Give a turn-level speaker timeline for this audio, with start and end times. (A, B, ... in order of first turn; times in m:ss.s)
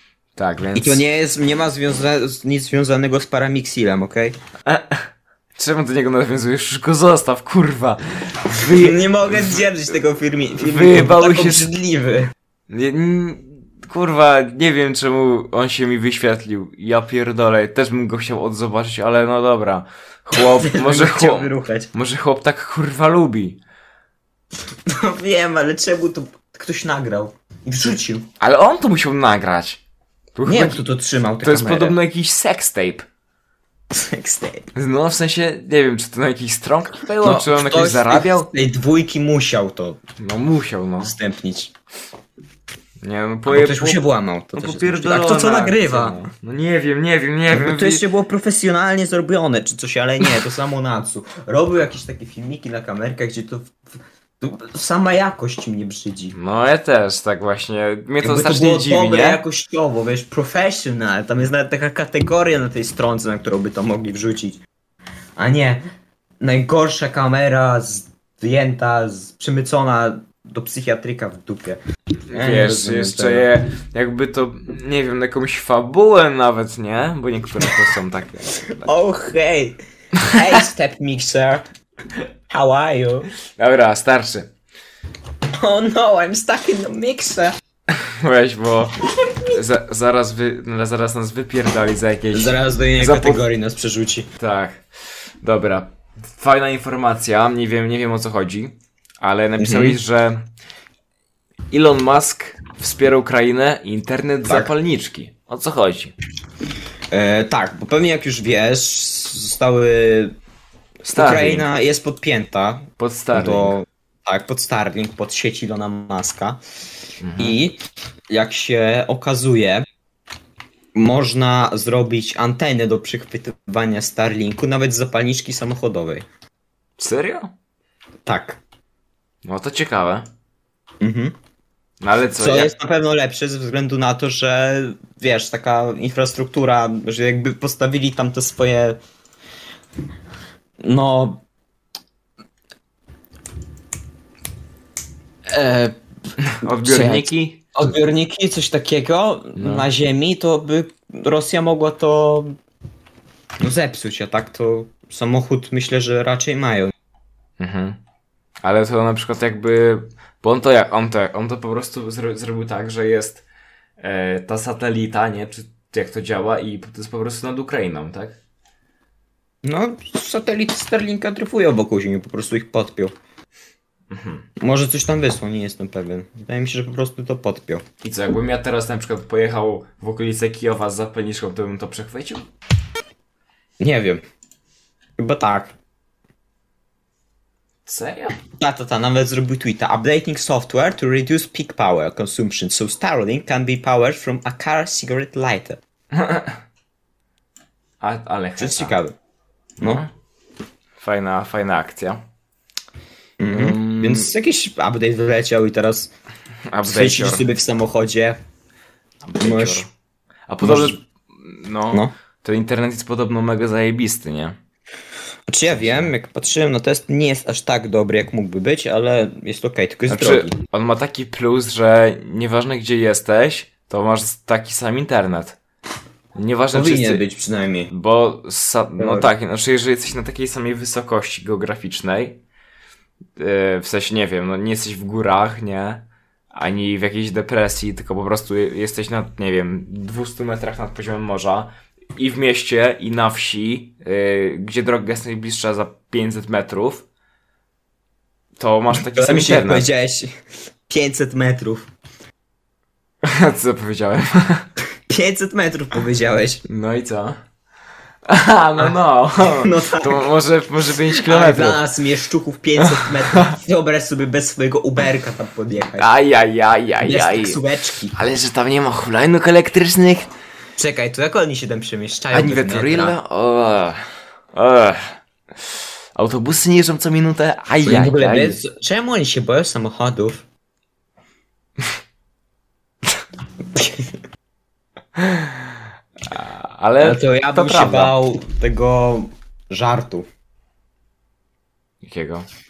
0:00.3-0:01.0 A
0:00.7-0:04.3 B
0:04.6-0:09.6 A
0:08.5-0:12.3 B
0:10.5-0:11.7 A
0:12.7-0:23.6 A
0:20.4-0:21.9 B
0:24.9-0:28.3 B
0:28.4-0:29.8 A
0:30.3-0:30.8 A
0:30.4-0:32.0 B
0:31.4-0:33.0 A
0:33.9-0:34.7 B
0:34.7-0:38.5 A
0:37.2-0:40.0 B
0:40.2-0:41.1 A
0:41.0-0:41.7 B
0:43.0-0:44.0 A
0:43.4-0:46.2 B
0:44.5-0:48.0 A
0:47.5-0:53.8 B
0:54.4-0:56.4 B
0:56.3-0:59.4 A
0:58.2-1:04.6 B
1:05.4-1:05.8 B
1:06.4-1:11.8 B
1:12.3-1:18.9 A
1:12.3-1:13.5 B
1:18.7-1:21.6 B
1:22.5-1:23.3 B
1:23.5-1:24.5 A
1:25.6-1:27.6 B
1:27.9-1:33.4 A
1:32.3-1:34.3 B
1:34.4-1:34.8 A
1:35.4-1:40.4 A
1:39.6-1:40.0 B
1:41.7-1:46.1 A
1:47.1-1:50.3 B
1:51.0-1:51.7 A
1:51.1-1:56.6 B
1:53.0-1:53.8 A
1:57.2-1:57.6 A
1:57.4-1:59.8 B
2:00.9-2:06.2 B
2:07.0-2:07.5 A
2:08.2-2:08.6 B
2:09.4-2:10.3 A
2:11.0-2:11.3 B
2:12.0-2:12.7 A
2:12.4-2:19.0 B
2:20.8-2:21.4 B
2:25.5-2:26.0 B
2:26.4-2:27.6 A
2:26.6-2:32.6 B
2:29.6-2:29.9 A
2:33.6-2:36.9 B
2:37.6-2:38.0 A
2:38.6-2:43.4 A
2:44.0-2:48.4 A
2:49.6-2:53.1 B
2:54.1-2:54.4 A
2:54.6-2:57.8 B
2:58.0-3:02.5 A
3:03.8-3:04.2 B
3:05.2-3:05.7 B
3:07.8-3:08.4 A
3:08.6-3:15.8 B
3:16.1-3:16.6 A
3:18.0-3:19.0 A
3:18.6-3:19.1 B
3:19.8-3:20.1 A
3:21.0-3:22.2 A
3:23.4-3:26.1 B
3:23.5-3:24.3 A
3:26.7-3:27.4 A
3:26.8-3:28.4 B
3:29.2-3:29.9 A
3:29.4-3:29.9 B
3:30.5-3:34.6 A
3:30.6-3:31.0 B
3:35.5-3:40.6 B
3:35.7-3:36.1 A
3:40.1-3:45.6 A
3:46.3-3:47.2 A
3:46.7-3:47.9 B
3:47.9-3:52.4 A
3:49.0-3:49.3 B
3:53.4-4:07.0 A
4:08.6-4:09.9 A
4:08.9-4:10.3 B
4:10.9-4:11.9 B
4:13.2-4:14.7 A
4:15.1-4:16.6 B
4:16.7-4:17.4 A
4:18.2-4:21.8 A
4:19.4-4:20.2 B
4:21.1-4:26.1 B
4:22.8-4:23.5 A
4:26.0-4:27.6 A
4:27.0-4:28.2 B
4:28.1-4:30.3 A
4:30.8-4:33.2 B
4:32.3-4:38.6 A
4:37.8-4:40.4 B
4:43.7-4:44.0 B
4:45.1-4:48.2 A
4:47.0-4:50.3 B
4:52.0-4:52.5 A